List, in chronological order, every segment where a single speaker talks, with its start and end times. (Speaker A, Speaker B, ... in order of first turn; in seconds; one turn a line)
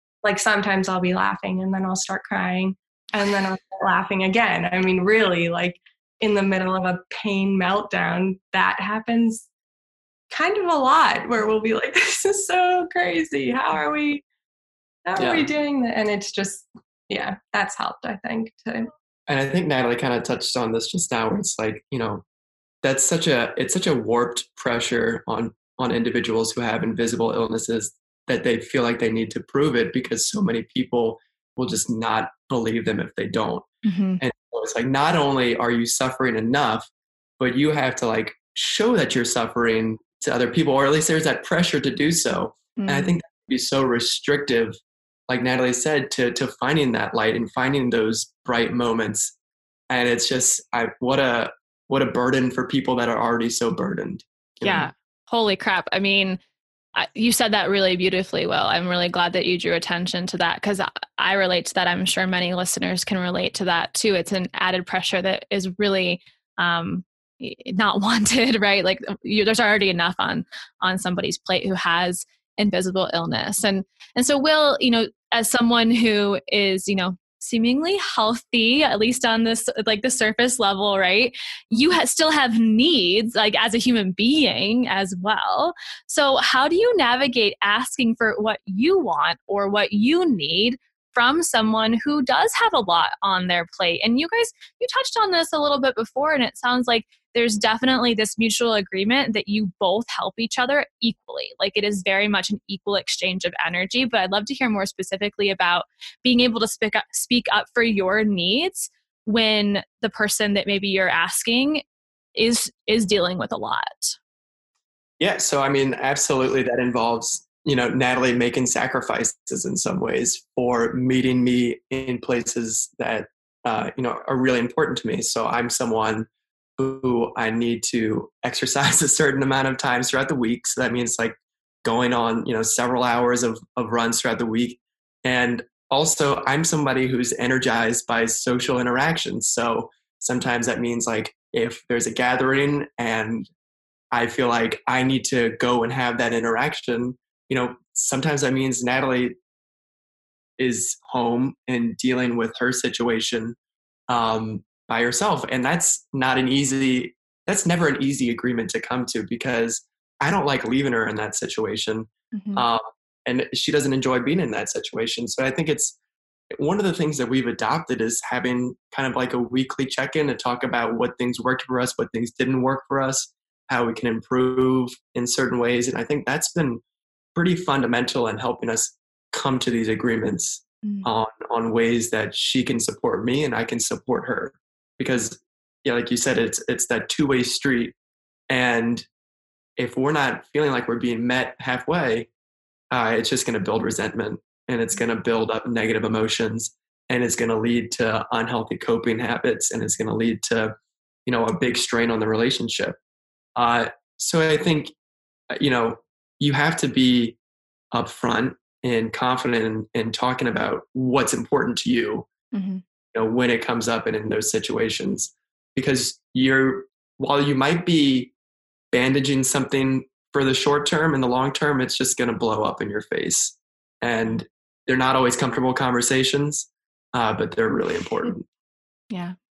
Speaker A: 0.2-9.5
Speaker A: 10.3-14.2
Speaker A: 15.1-18.9
Speaker B: 15.2-15.5
Speaker B: 19.3-22.2
Speaker B: 22.8-33.7
Speaker C: 33.8-34.2
Speaker B: 34.2-36.9
Speaker B: 37.4-49.4
Speaker C: 42.8-43.2
Speaker B: 49.9-54.9
Speaker C: 54.6-56.4
Speaker C: 57.0-111.8
Speaker C: 112.3-114.2
Speaker B: 115.2-143.5
Speaker B: 144.1-149.3
Speaker B: 150.6-153.6
Speaker B: 154.1-166.0
Speaker C: 162.3-162.7
Speaker B: 166.5-176.8
Speaker B: 177.3-187.9
Speaker B: 188.5-189.1
Speaker B: 189.8-192.3
Speaker B: 192.9-200.7
Speaker B: 201.3-203.0
Speaker B: 203.6-204.9
Speaker B: 205.5-207.4
Speaker B: 207.9-212.3
Speaker C: 212.5-212.8
Speaker B: 213.1-218.3
Speaker B: 218.9-228.5